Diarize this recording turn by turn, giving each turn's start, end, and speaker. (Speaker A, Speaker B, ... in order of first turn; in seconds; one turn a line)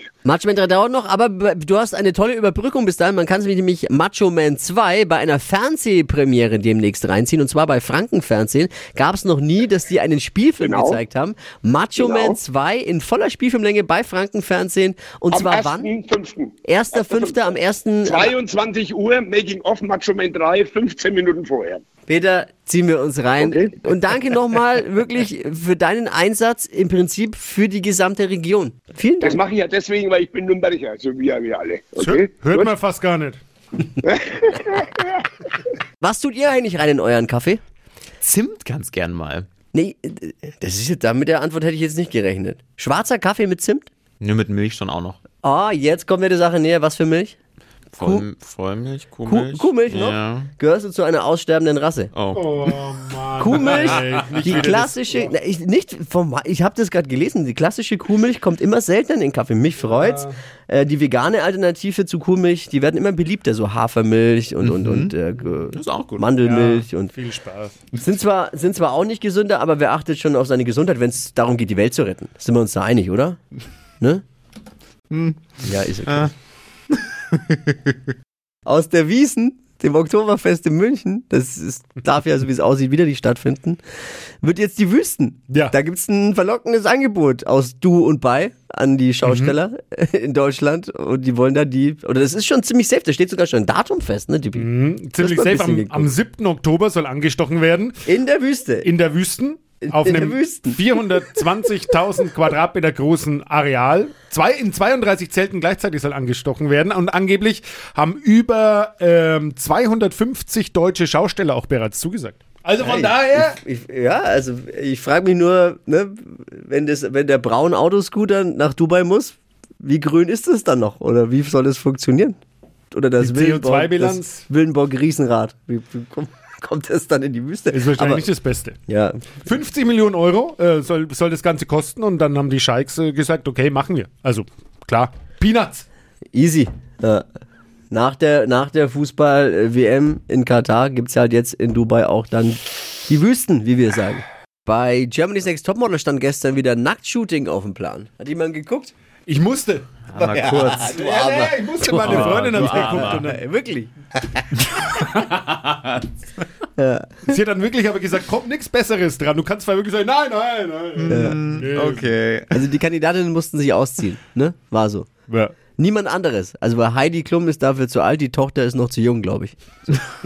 Speaker A: 0.2-15.9
Speaker B: 10.6-11.0
Speaker B: 11.9-12.4
Speaker B: 15.3-21.8
Speaker A: 16.6-18.3
Speaker A: 22.1-29.4
Speaker B: 23.4-23.7
Speaker B: 29.2-32.7
Speaker C: 32.0-33.4
Speaker B: 34.0-35.2
Speaker A: 36.0-37.6
Speaker D: 38.2-39.5
Speaker A: 39.7-43.9
Speaker D: 44.2-45.2
Speaker A: 45.4-47.4
Speaker D: 47.9-50.5
Speaker A: 48.0-48.2
Speaker A: 49.2-52.1
Speaker D: 52.1-52.8
Speaker C: 52.3-55.3
Speaker A: 53.4-67.1
Speaker D: 53.9-54.5
Speaker C: 59.9-60.3
Speaker D: 64.6-65.1
Speaker D: 65.7-66.3
Speaker C: 66.4-67.8
Speaker A: 68.0-73.4
Speaker D: 75.1-76.3
Speaker A: 75.6-76.3
Speaker A: 78.7-83.8
Speaker A: 84.4-96.1
Speaker C: 89.2-89.5
Speaker C: 94.5-98.0
Speaker A: 98.0-98.9
Speaker C: 98.8-113.6
Speaker A: 99.8-100.8
Speaker A: 112.8-122.4
Speaker A: 122.9-128.2
Speaker C: 123.2-124.4
Speaker C: 127.7-128.8
Speaker A: 128.9-129.3
Speaker C: 129.4-135.8
Speaker A: 136.3-137.2
Speaker A: 137.9-148.9
Speaker C: 149.3-150.0
Speaker D: 150.0-151.0
Speaker A: 150.1-154.4
Speaker C: 150.9-153.4
Speaker D: 152.0-153.2
Speaker A: 156.8-157.3
Speaker C: 157.2-162.2
Speaker D: 161.0-162.6
Speaker A: 161.1-161.4
Speaker A: 162.5-165.1
Speaker C: 165.3-165.6
Speaker A: 165.8-169.6